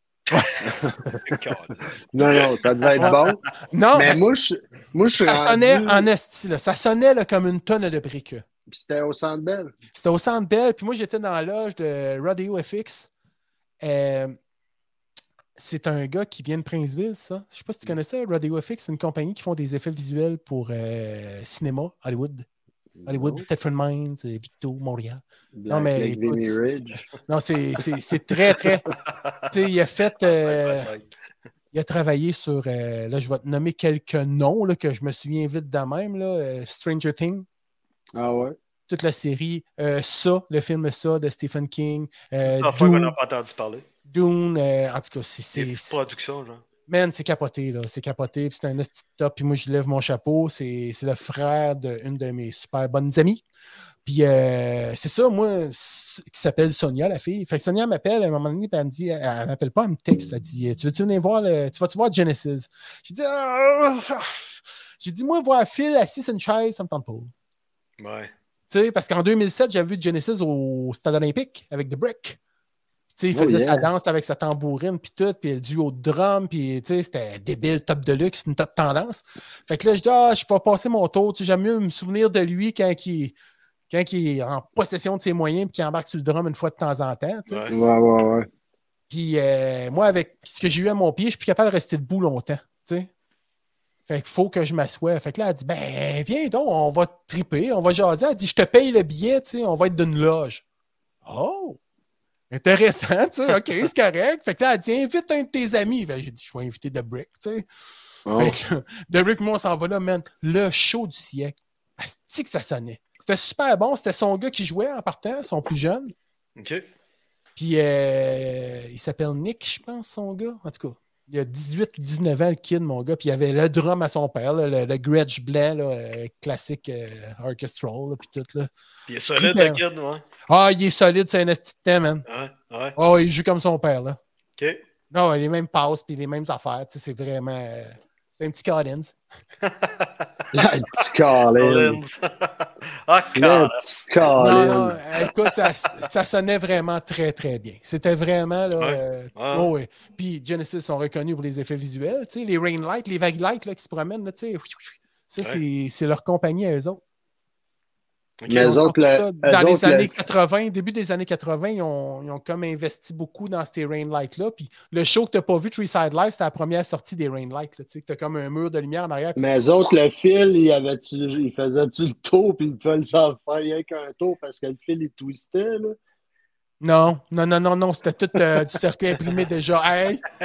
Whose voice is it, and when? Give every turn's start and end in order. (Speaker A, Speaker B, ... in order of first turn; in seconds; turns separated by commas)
Speaker A: 0.3-0.7, Speaker B: 0.6-1.2, Speaker A: 1.2-3.3, Speaker B: 2.1-3.4, Speaker C: 3.0-4.2, Speaker B: 3.9-6.1, Speaker C: 5.2-8.4, Speaker B: 8.7-9.8, Speaker C: 9.9-13.1, Speaker C: 13.8-14.4, Speaker C: 15.6-22.4, Speaker B: 23.0-23.4, Speaker C: 23.1-28.8, Speaker B: 25.5-27.0, Speaker A: 29.1-29.5, Speaker C: 29.5-30.9, Speaker A: 30.2-31.1, Speaker C: 31.7-37.5, Speaker B: 38.1-38.5, Speaker C: 38.9-43.1, Speaker A: 42.4-43.8, Speaker C: 44.1-46.0, Speaker A: 45.5-46.6, Speaker C: 46.9-53.4, Speaker C: 54.0-67.3, Speaker A: 68.0-68.3, Speaker C: 68.7-72.4, Speaker C: 73.1-83.3, Speaker B: 73.3-73.9, Speaker C: 83.9-87.7, Speaker A: 87.5-87.7, Speaker B: 87.7-88.5, Speaker C: 89.1-93.1, Speaker C: 94.1-100.6, Speaker C: 101.2-101.8, Speaker C: 102.5-107.6, Speaker B: 108.3-108.5, Speaker C: 108.3-116.1, Speaker A: 116.6-116.8, Speaker C: 117.6-128.7, Speaker A: 129.1-130.2, Speaker C: 129.4-129.8, Speaker C: 130.5-132.2, Speaker A: 132.3-133.0, Speaker C: 132.9-134.2, Speaker C: 135.1-139.2, Speaker A: 139.6-140.4, Speaker B: 140.5-142.0, Speaker A: 141.5-144.8, Speaker B: 143.3-145.0, Speaker C: 144.4-157.0, Speaker A: 148.8-149.7, Speaker A: 158.4-158.7, Speaker B: 158.5-160.1, Speaker C: 158.5-169.4, Speaker B: 169.4-176.0, Speaker C: 176.8-180.2